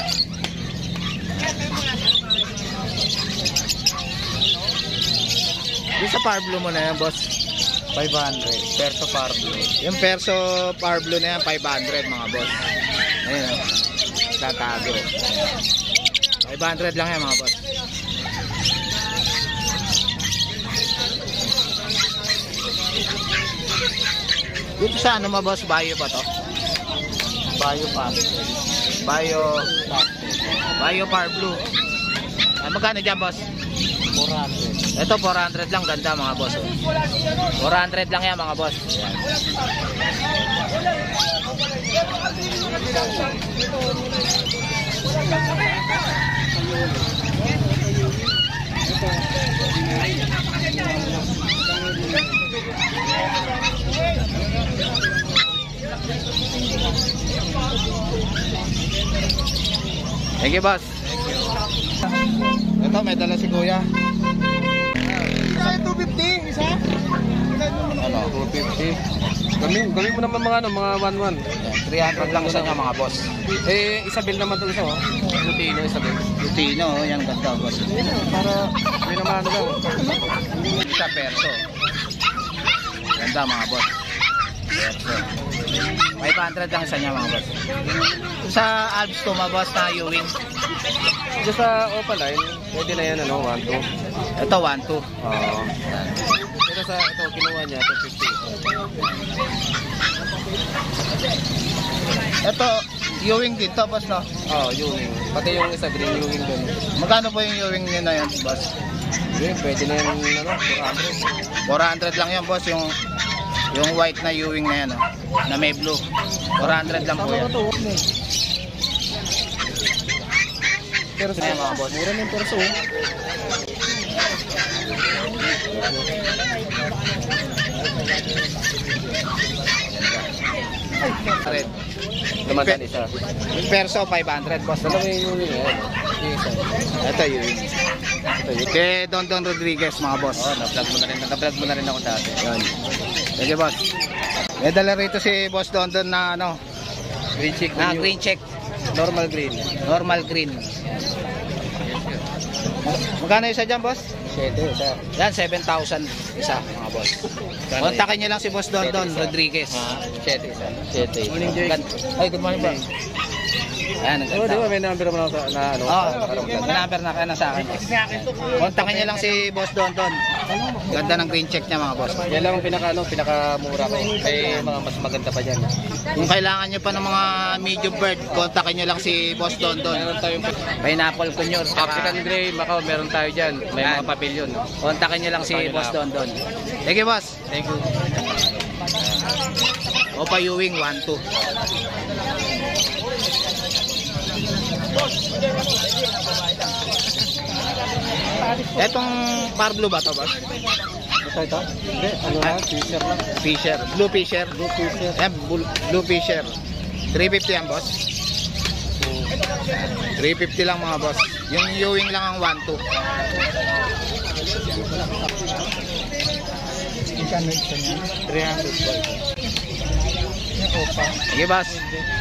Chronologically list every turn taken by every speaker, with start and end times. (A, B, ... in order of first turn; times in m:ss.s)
0:06.0-0:07.3 A
0:07.9-0:09.7 B
0:09.8-0:12.6 A
0:13.2-0:13.6 A
0:14.3-0:15.1 A
0:16.4-0:17.6 A
0:24.8-0:26.2 A
0:27.6-0:28.3 B
0:29.0-0:29.7 A
0:29.9-0:30.4 B
0:30.8-0:31.6 A
0:32.6-0:33.4 A
0:34.2-0:34.8 B
0:35.0-0:36.7 A
0:37.6-0:39.2 A
1:00.4-1:00.9 A
1:02.8-1:03.8 A
1:05.4-1:06.8 B
1:07.8-1:09.0 B
1:08.0-1:08.3 A
1:09.6-1:11.4 B
1:11.6-1:13.2 A
1:12.2-1:12.8 B
1:13.6-1:16.2 B
1:16.4-1:17.9 A
1:17.9-1:19.8 B
1:20.7-1:21.6 A
1:23.2-1:23.9 A
1:24.8-1:25.2 A
1:26.2-1:27.5 A
1:28.4-1:30.3 A
1:31.4-1:33.8 B
1:34.4-1:35.1 A
1:35.2-1:35.7 B
1:36.6-1:38.4 B
1:42.4-1:44.3 A
1:44.5-1:46.8 B
1:47.0-1:48.7 A
1:49.3-1:51.3 B
1:51.6-1:52.9 A
1:53.7-1:56.0 A
1:56.6-1:57.5 A
1:56.8-1:58.0 B
2:01.2-2:02.8 B
2:01.3-2:02.1 A
2:09.9-2:10.2 A
2:11.1-2:11.7 B
2:11.4-2:11.7 A
2:12.4-2:13.1 B
2:12.5-2:12.8 A
2:13.5-2:15.1 A
2:14.8-2:16.6 B
2:17.0-2:17.7 A
2:18.3-2:18.8 B
2:18.7-2:20.6 A
2:20.4-2:22.7 B
2:23.4-2:23.8 A
2:24.6-2:26.6 A
2:27.4-2:28.1 B
2:27.8-2:28.5 A
2:28.9-2:29.7 B
2:29.7-2:31.0 A
2:31.8-2:32.2 B
2:32.8-2:34.1 A
2:34.2-2:35.0 B
2:35.1-2:39.9 A
2:37.7-2:38.0 B
2:38.8-2:41.8 B
2:41.4-2:42.8 A
2:42.5-2:42.8 B
2:44.0-2:44.8 A
2:44.3-2:46.9 B
2:45.8-2:50.2 A
2:47.8-2:49.2 B
2:50.9-2:52.2 A
2:52.3-2:55.7 B
2:56.1-3:00.1 A
2:59.8-3:00.5 B
3:00.8-3:02.2 A
3:01.8-3:04.6 B
3:03.8-3:04.1 A
3:04.8-3:07.4 A
3:05.4-3:06.0 B
3:07.5-3:07.9 B
3:10.1-3:11.2 A
3:18.6-3:20.3 A
3:21.2-3:23.2 B
3:23.4-3:24.6 A
3:24.6-3:25.2 B
3:25.1-3:26.5 A
3:27.1-3:28.0 A
3:29.0-3:29.3 B
3:29.7-3:32.8 A
3:37.2-3:38.0 A
3:38.1-3:39.2 B
3:40.6-3:41.1 B
3:41.3-3:41.8 A